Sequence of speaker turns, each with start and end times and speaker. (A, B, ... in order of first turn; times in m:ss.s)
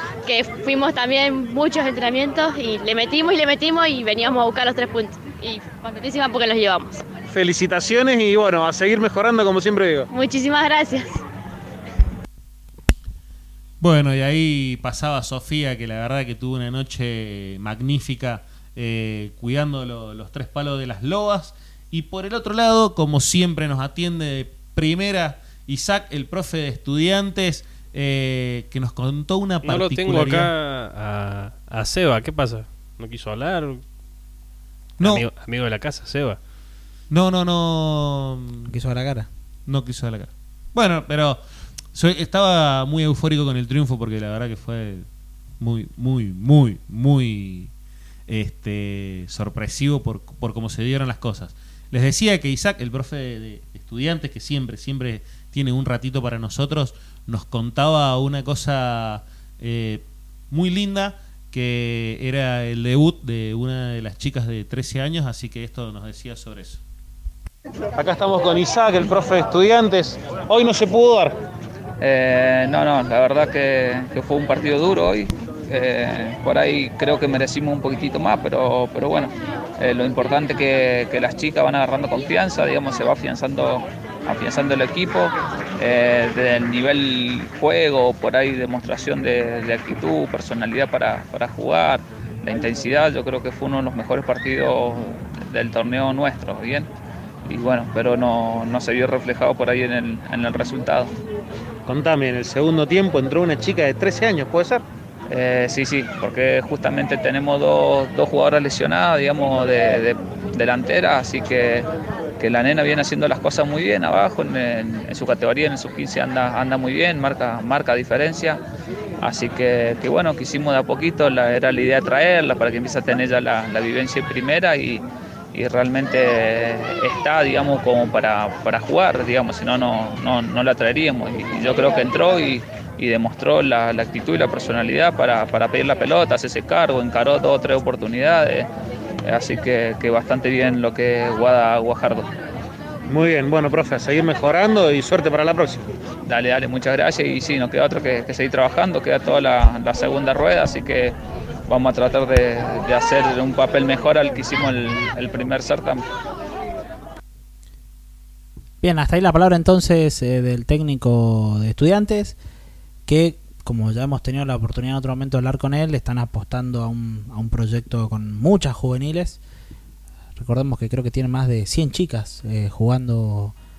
0:00.2-0:07.0 A
0:07.3-0:10.1 B
0:10.1-0:11.2 A
0:13.8-0:30.5 C
0:29.6-0:33.8 D
0:35.0-0:35.2 C
0:35.0-0:36.4 D
0:37.1-0:38.7 C
0:38.7-0:39.3 E
0:39.7-0:41.4 C
0:41.9-0:45.0 C
0:45.6-0:47.7 C
0:48.3-1:06.8 C
1:08.0-1:11.4 B
1:12.0-1:36.9 F
1:37.5-1:41.1 F
1:41.9-1:44.8 B
1:45.3-1:51.9 F
1:52.4-1:58.6 F
1:59.2-2:18.7 F
2:19.2-2:22.3 F
2:23.1-2:25.8 B
2:26.3-2:31.2 F
2:31.7-2:36.1 F
2:38.8-2:42.4 E
2:43.1-2:49.4 E
2:50.4-2:53.6 E